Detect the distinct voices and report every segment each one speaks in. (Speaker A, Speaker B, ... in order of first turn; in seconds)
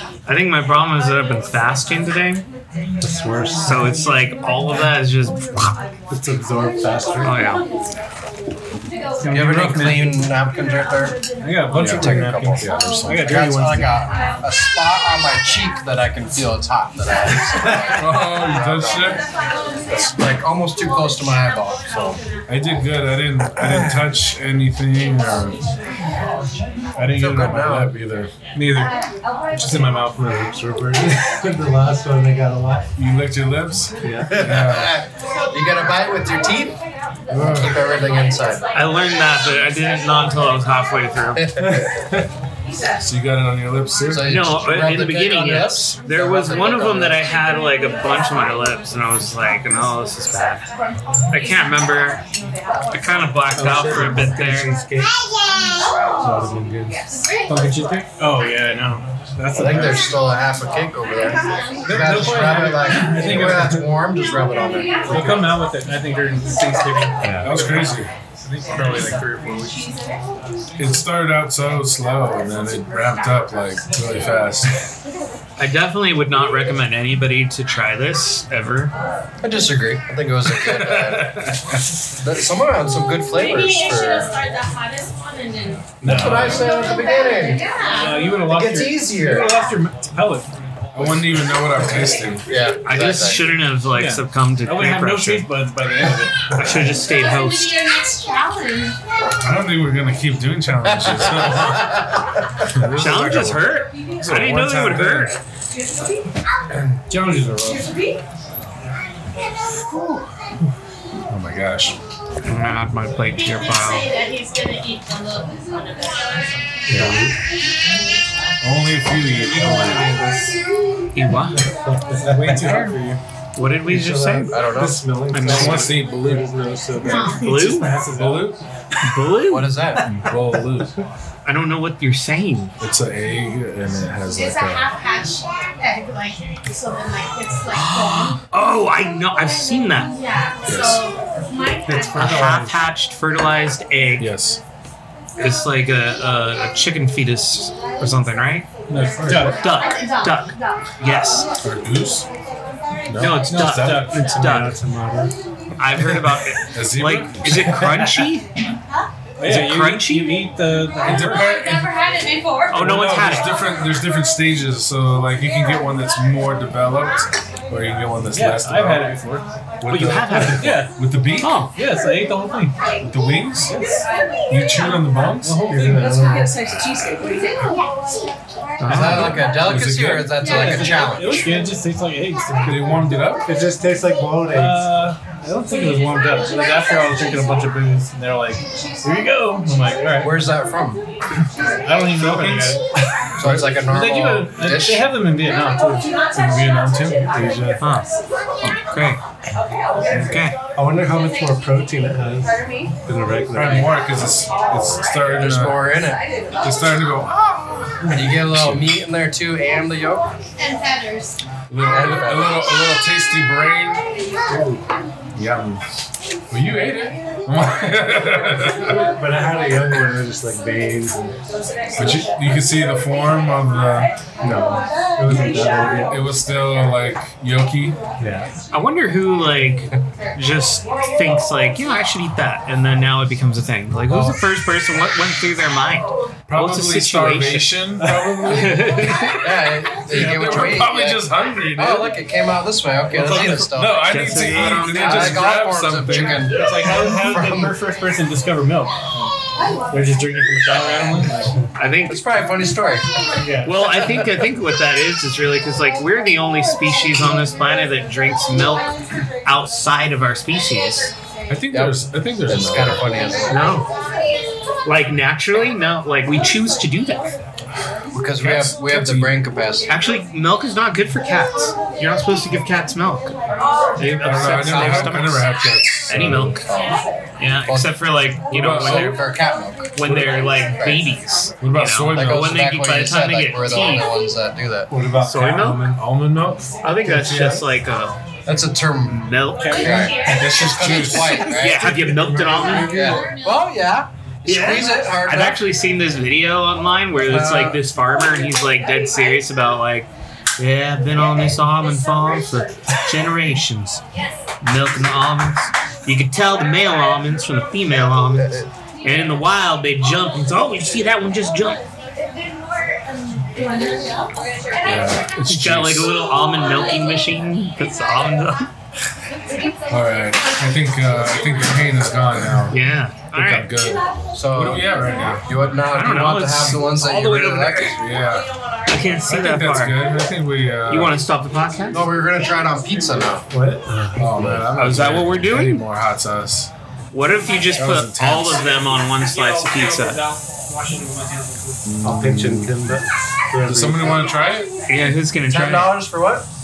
Speaker A: 0.2-2.4, 3.6-5.7, 7.2-7.6, 38.7-41.4, 44.2-50.7, 51.3-52.2, 52.9-54.7, 75.6-78.9, 92.8-95.5, 96.5-97.8, 102.9-105.4, 112.4-114.1, 121.1-121.6, 123.5-124.6, 125.3-125.9, 127.3-127.9, 129.0-129.7, 131.4-132.7, 137.7-140.1, 142.1-144.3, 145.4-148.7, 149.5-151.5, 153.2-154.7, 155.8-158.4, 159.4-160.4, 162.7-163.5, 169.9-170.8, 171.4-171.7, 178.8-179.4, 197.8-198.1, 198.6-199.2, 200.1-200.5, 228.7-237.8, 238.4-239.4, 244.0-245.5, 251.8-252.2, 253.6-258.9, 259.4-261.1, 263.5-263.9, 264.8-267.3, 269.9-273.3, 274.0-276.6, 277.4-279.2, 279.9-284.1, 285.2-285.9, 286.8-288.2, 289.1-290.1, 291.3-292.9, 294.4-304.0, 304.6-311.8, 315.4-318.7, 322.7-323.7, 325.9-327.9, 328.9-330.0, 330.9-332.0, 334.7-335.8, 337.1-340.2, 344.9-345.9
Speaker B: 3.0-4.0, 6.1-7.4, 12.1-12.6, 29.6-32.9, 34.0-34.4, 53.5-55.1, 56.2-57.0, 67.2-67.5, 116.9-117.3, 121.8-122.8, 123.8-128.5, 141.8-142.7, 154.3-155.3, 175.7-176.5, 183.4-184.9, 197.3-197.8, 200.8-203.9, 214.5-214.8, 218.9-221.3, 224.4-226.2, 228.2-228.5, 284.9-286.0, 287.0-287.6, 291.8-293.3, 333.5-334.7, 342.0-344.3
Speaker C: 9.2-10.3, 11.4-13.9, 28.5-28.9, 29.6-30.0, 57.5-60.2, 61.8-63.9, 65.1-69.8, 87.9-90.5, 93.9-96.5, 107.1-107.9, 119.3-120.6, 122.1-123.2, 148.9-149.6, 153.5-154.7, 159.4-161.5, 162.8-163.4, 168.3-169.5, 170.5-170.9, 171.7-172.8, 173.7-174.0, 175.4-176.2, 180.4-183.2, 184.5-190.3, 191.7-192.8, 193.8-197.3, 246.5-248.9, 249.9-251.5, 253.4-253.7, 289.6-290.1, 339.2-341.8
Speaker D: 9.3-11.2, 11.7-19.2, 19.9-22.2, 23.6-24.1, 27.1-27.9, 34.3-36.8, 37.4-38.6, 41.4-41.6, 44.1-47.2, 59.5-65.5, 79.4-81.3, 82.2-84.4, 86.0-87.7, 88.4-89.5, 92.5-93.4, 100.8-102.1, 124.5-125.0, 129.5-130.0, 178.8-181.6, 190.2-191.0, 193.4-195.1, 205.3-206.2, 208.1-210.3, 211.8-212.7, 234.1-234.4, 239.4-244.2, 244.7-247.7, 252.1-253.1, 253.8-254.2, 261.7-263.7, 268.1-269.9, 274.4-275.2, 276.5-277.0, 277.6-277.9, 278.6-281.1, 282.1-284.9, 288.4-291.9, 292.7-295.6, 297.2-297.8, 324.3-327.9, 331.9-333.4, 345.5-346.4
Speaker E: 11.7-13.4, 17.9-19.2, 22.5-25.6, 26.9-28.3, 33.0-35.0, 37.3-37.8, 43.0-44.4, 67.4-68.1, 70.8-74.7, 80.5-81.7, 86.0-86.7, 90.9-92.5, 99.4-101.8, 102.7-105.4, 109.9-110.3, 111.3-112.0, 116.9-117.2, 118.6-120.1, 125.4-126.5, 128.1-128.6, 130.0-131.0, 132.8-134.9, 140.7-141.0, 144.2-144.6, 149.2-149.5, 151.6-152.2, 153.1-154.1, 156.7-158.0, 161.0-162.0, 162.8-169.1, 169.8-171.7, 173.0-173.7, 174.5-175.7, 178.8-180.5, 182.6-183.4, 192.2-192.8, 203.5-205.9, 206.6-208.9, 211.7-214.0, 215.3-215.8, 216.5-219.1, 221.9-224.1, 226.1-228.0, 236.5-239.4, 240.1-242.2, 243.2-246.5, 261.5-263.1, 268.4-269.4, 274.2-276.6, 278.5-279.2, 281.6-282.5, 285.3-286.6, 290.2-291.6, 314.8-316.1, 319.9-322.8, 323.3-325.5, 327.9-328.5, 329.3-331.1, 334.2-336.7, 337.8-338.6, 341.8-343.0, 343.6-344.7
Speaker F: 83.3-85.9, 86.6-88.4, 96.9-99.0, 113.4-116.5, 127.0-127.7, 134.3-138.4, 140.1-142.5, 162.0-162.6, 210.6-211.3
Speaker G: 175.9-177.6, 221.9-222.3